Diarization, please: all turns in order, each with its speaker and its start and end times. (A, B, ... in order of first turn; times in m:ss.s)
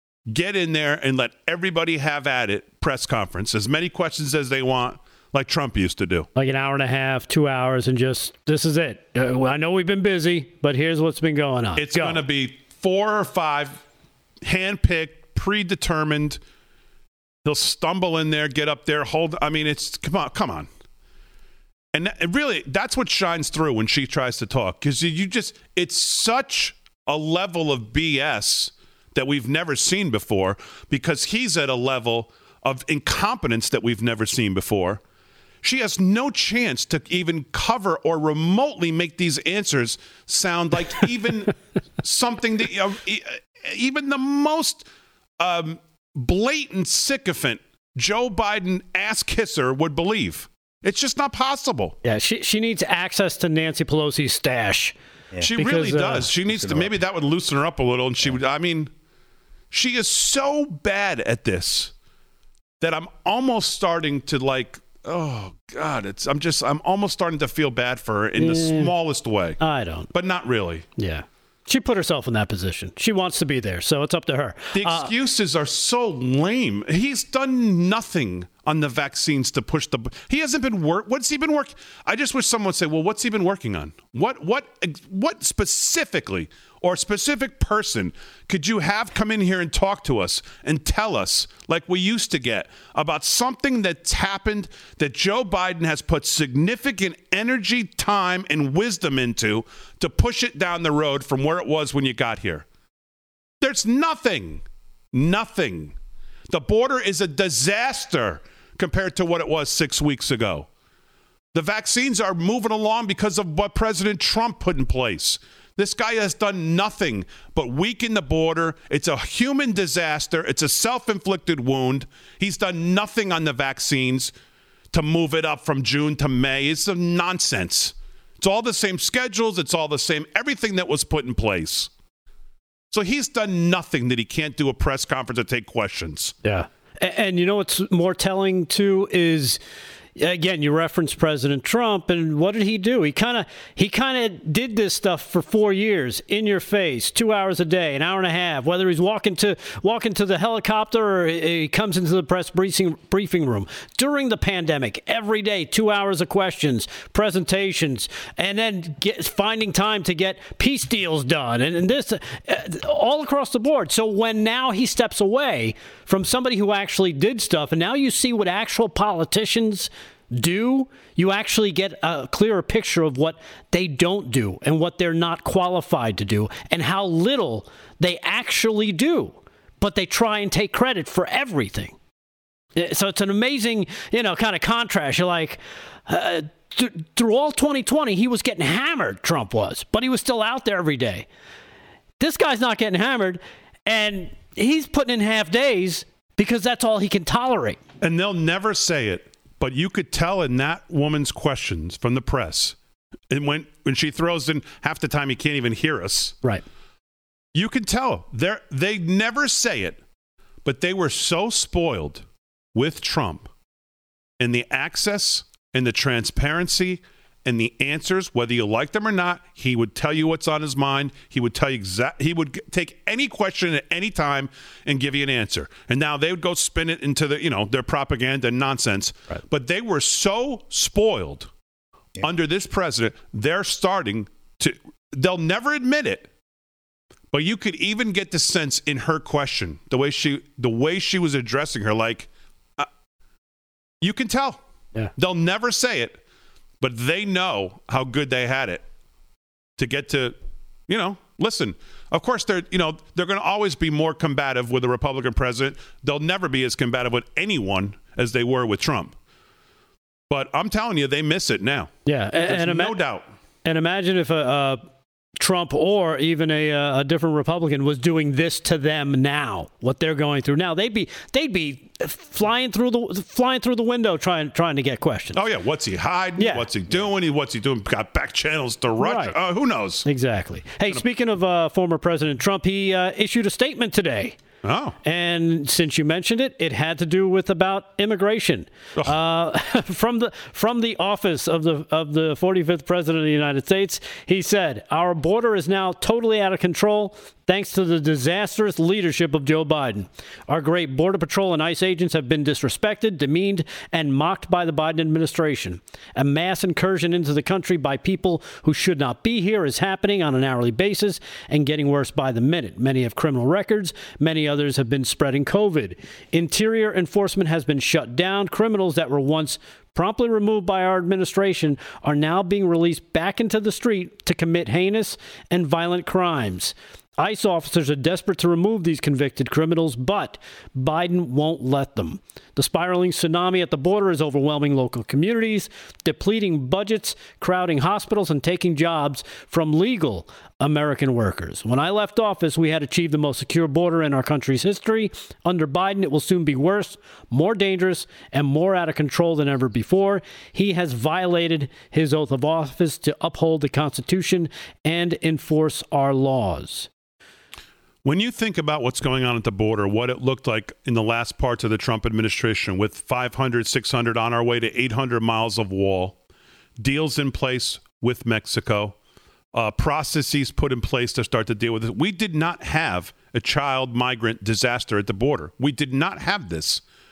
0:00.3-0:06.3 A
0:06.3-0:12.2 B
0:11.8-0:13.8 A
0:14.4-0:16.4 A
0:17.4-0:20.7 A
0:21.9-0:35.0 A
0:35.6-0:44.8 A
0:45.4-0:52.0 A
0:52.0-0:54.9 B
0:55.4-0:58.9 A
0:55.5-0:56.3 B
0:59.7-1:01.9 A
1:02.8-1:09.6 A
1:08.4-1:08.9 B
1:09.6-1:10.1 B
1:10.1-1:10.8 A
1:11.0-1:15.1 B
1:14.7-1:42.6 A
1:43.6-1:45.9 A
1:46.5-1:50.7 A
1:51.5-2:04.3 A
2:04.9-2:11.9 A
2:12.9-2:16.4 A
2:16.4-2:19.6 B
2:20.2-3:02.0 B
3:02.8-3:11.3 B
3:12.2-3:17.8 B
3:18.0-3:22.8 A
3:23.3-3:26.4 A
3:27.5-3:30.0 A
3:30.6-3:32.2 A
3:32.7-3:33.5 A
3:34.4-3:51.5 A
3:52.2-3:56.3 A
3:57.3-4:02.9 A
4:04.0-4:04.6 A
4:05.2-4:06.2 A
4:06.8-4:08.8 A
4:09.8-4:10.4 A
4:10.9-4:19.1 A
4:20.3-4:21.9 A
4:22.0-4:23.0 B
4:22.5-4:23.2 A
4:23.6-4:24.8 B
4:25.4-4:35.4 B
4:35.3-4:40.0 A
4:36.4-4:36.6 B
4:39.0-4:39.4 B
4:40.0-4:44.4 B
4:44.6-4:44.9 A
4:45.0-5:56.9 B
5:58.0-6:06.2 A
6:06.8-6:08.9 A
6:09.5-6:16.8 A